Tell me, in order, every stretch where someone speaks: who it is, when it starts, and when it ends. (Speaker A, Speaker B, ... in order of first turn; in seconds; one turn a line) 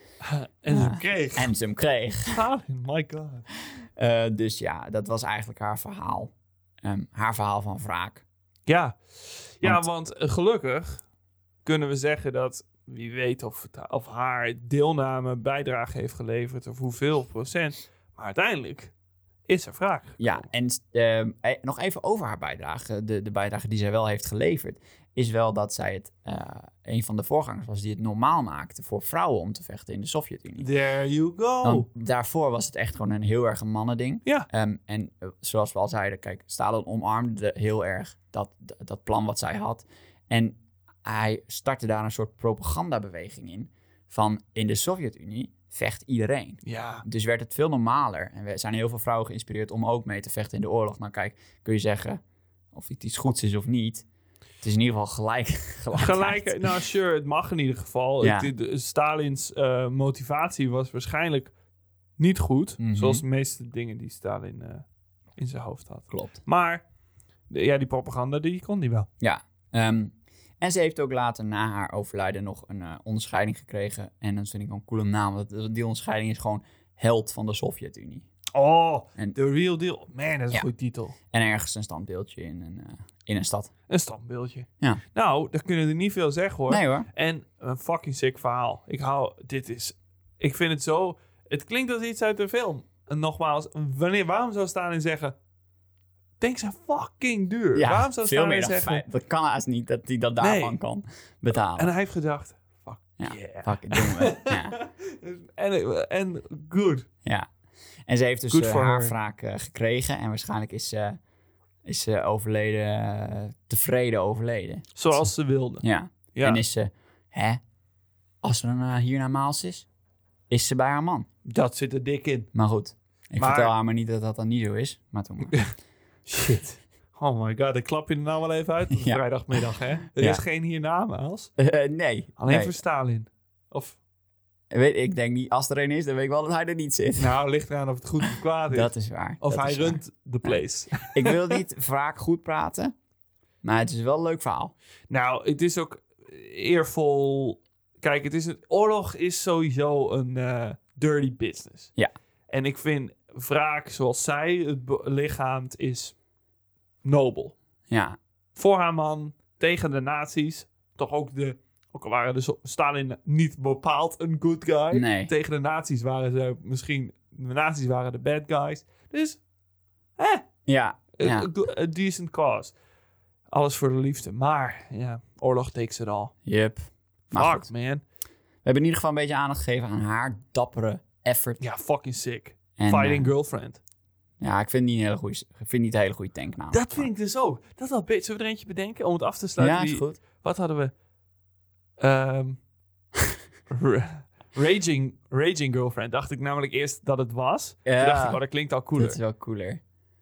Speaker A: 0.2-1.5
Speaker B: 0.7-2.4
Speaker A: 2.3-3.5
Speaker B: 4.0-6.3
Speaker B: 6.8-8.2
Speaker A: 8.7-11.0
Speaker A: 11.6-18.9
Speaker A: 19.5-20.4
Speaker B: 20.2-30.7
Speaker A: 30.6-31.9
Speaker B: 31.6-52.2
Speaker A: 46.6-47.0
Speaker B: 52.7-54.0
Speaker B: 54.6-56.7
Speaker A: 55.9-61.5
Speaker B: 58.2-58.5
Speaker A: 62.2-64.8
Speaker B: 62.8-63.2
Speaker A: 65.4-66.8
Speaker B: 66.1-66.4
Speaker A: 67.5-69.1
Speaker B: 69.2-78.3
Speaker A: 78.5-81.2
Speaker B: 81.3-83.7
Speaker A: 83.9-95.4
Speaker B: 86.7-87.1
Speaker A: 96.4-99.0
Speaker B: 97.8-101.9
Speaker A: 100.4-100.8
Speaker A: 101.5-107.1
Speaker B: 103.2-104.8
Speaker B: 108.1-111.2
Speaker A: 108.5-109.2
Speaker B: 111.8-117.6
Speaker A: 115.0-115.8
Speaker A: 116.3-116.6
Speaker B: 118.4-119.9
Speaker B: 120.5-121.3
Speaker A: 121.5-122.5
Speaker B: 122.5-125.6
Speaker A: 123.4-123.8
Speaker A: 126.3-131.5
Speaker B: 128.9-129.6
Speaker B: 131.6-132.8
Speaker A: 132.4-134.0
Speaker B: 134.7-137.4
Speaker A: 137.2-141.6
Speaker B: 138.2-142.9
Speaker B: 143.6-144.7
Speaker A: 145.1-151.9
Speaker A: 152.5-156.2
Speaker A: 157.0-157.6
Speaker B: 157.9-158.2
Speaker A: 158.6-169.4
Speaker B: 164.9-165.3
Speaker A: 170.2-170.5
Speaker B: 170.7-171.5
Speaker A: 171.2-172.8
Speaker A: 173.5-176.3
Speaker B: 176.4-177.7
Speaker A: 177.3-178.0
Speaker B: 178.7-181.6
Speaker A: 181.6-183.8
Speaker B: 182.8-183.3
Speaker B: 184.4-187.1
Speaker A: 186.7-190.9
Speaker B: 189.6-190.2
Speaker A: 192.0-192.6
Speaker A: 193.7-199.2
Speaker B: 197.9-198.4
Speaker B: 198.9-199.8